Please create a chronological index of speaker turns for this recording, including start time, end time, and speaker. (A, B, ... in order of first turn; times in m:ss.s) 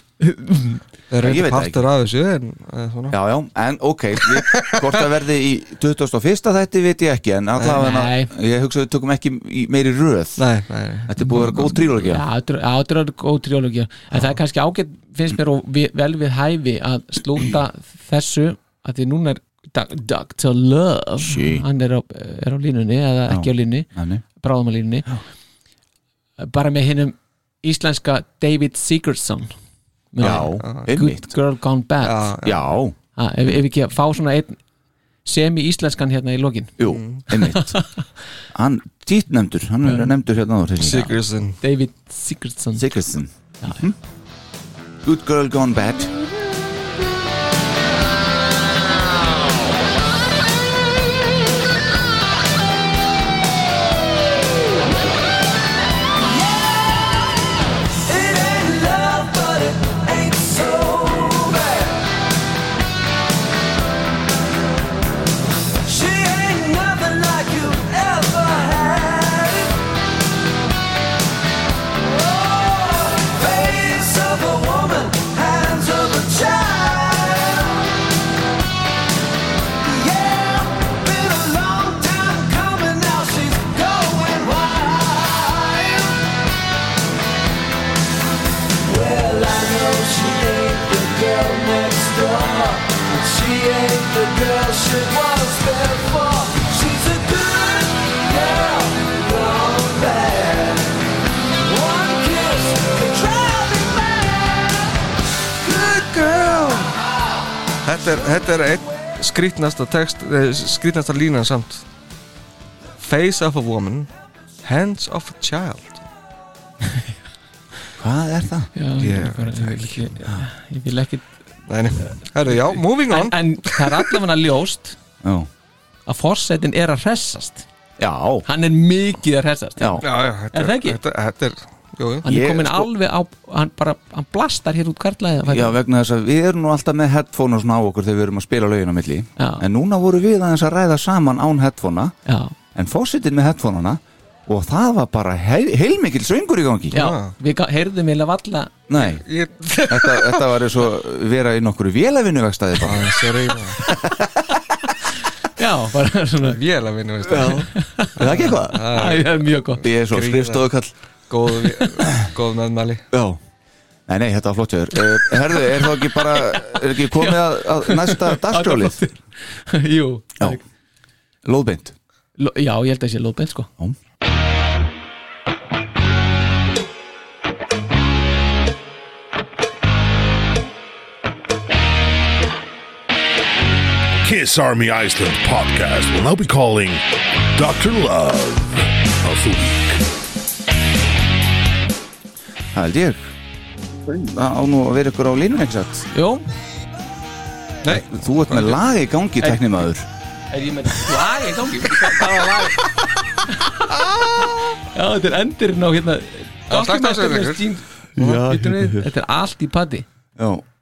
0:00.2-0:00.8 A
0:01.1-0:03.2 B
0:01.2-0:01.9 C
0:03.1-0:10.4 C
0:04.3-0:05.0 B
0:07.7-0:08.3 A
0:10.4-0:11.1 B
0:11.0-0:12.2 C
0:12.0-0:23.9 A
0:21.2-0:21.6 C
0:23.3-0:24.2 C
0:24.4-0:25.1 A
0:26.4-0:29.5 A
0:30.1-0:32.3 A
0:30.2-0:31.3 C
0:30.6-0:30.8 B
0:32.0-0:32.6 B
0:32.4-0:33.0 C
0:33.2-0:34.6 A
0:35.2-0:36.8 A
0:36.8-0:37.8 C
0:36.9-0:37.2 B
0:37.3-0:38.0 A
0:38.5-0:41.1 C
0:39.8-0:40.1 A
0:40.8-0:41.6 B
0:40.9-0:42.9 A
0:42.8-0:44.0 C
0:45.0-0:46.1 C
0:58.0-1:02.0 D
1:05.8-1:09.8 D
1:12.1-1:17.8 D
1:19.8-1:26.2 D
1:28.8-1:40.9 D
1:41.6-1:44.8 D
1:45.6-1:45.9 D
1:45.9-1:46.8 B
1:47.8-1:51.8 B
1:53.0-1:54.1 B
1:54.6-1:56.0 B
1:58.0-1:58.7 C
1:58.7-2:01.2 A
1:59.0-2:00.1 B
2:01.7-2:04.0 B
2:02.4-2:05.0 A
2:05.2-2:05.5 C
2:06.1-2:07.6 A
2:08.0-2:08.4 C
2:08.4-2:11.0 A
2:09.8-2:10.0 C
2:10.0-2:12.2 B
2:12.2-2:15.7 A
2:12.2-2:12.9 C
2:15.5-2:22.1 C
2:19.4-2:19.6 A
2:22.2-2:22.5 A
2:22.7-2:27.0 C
2:26.9-2:27.3 B
2:26.9-2:28.7 A
2:28.9-2:29.2 C
2:29.0-2:30.4 B
2:29.8-2:33.2 C
2:32.8-2:33.8 B
2:33.8-2:34.3 C
2:35.6-2:36.6 A
2:36.6-2:43.0 B
2:37.3-2:38.8 C
2:37.7-2:38.1 A
2:38.7-2:39.8 A
2:39.8-2:40.9 C
2:43.1-2:43.4 C
2:44.1-2:49.0 C
2:46.3-2:46.6 A
2:47.1-2:50.6 A
2:51.4-2:51.9 C
2:52.4-2:53.7 A
3:04.2-3:07.0 E
3:07.5-3:09.9 E
3:12.7-3:13.2 C
3:14.1-3:16.1 C
3:16.1-3:16.4 A
3:17.8-3:18.8 B
3:17.9-3:20.1 C
3:20.5-3:22.8 A
3:23.4-3:23.8 A
3:24.9-3:30.0 A
3:26.7-3:27.6 B
3:28.2-3:29.1 C
3:30.4-3:30.6 C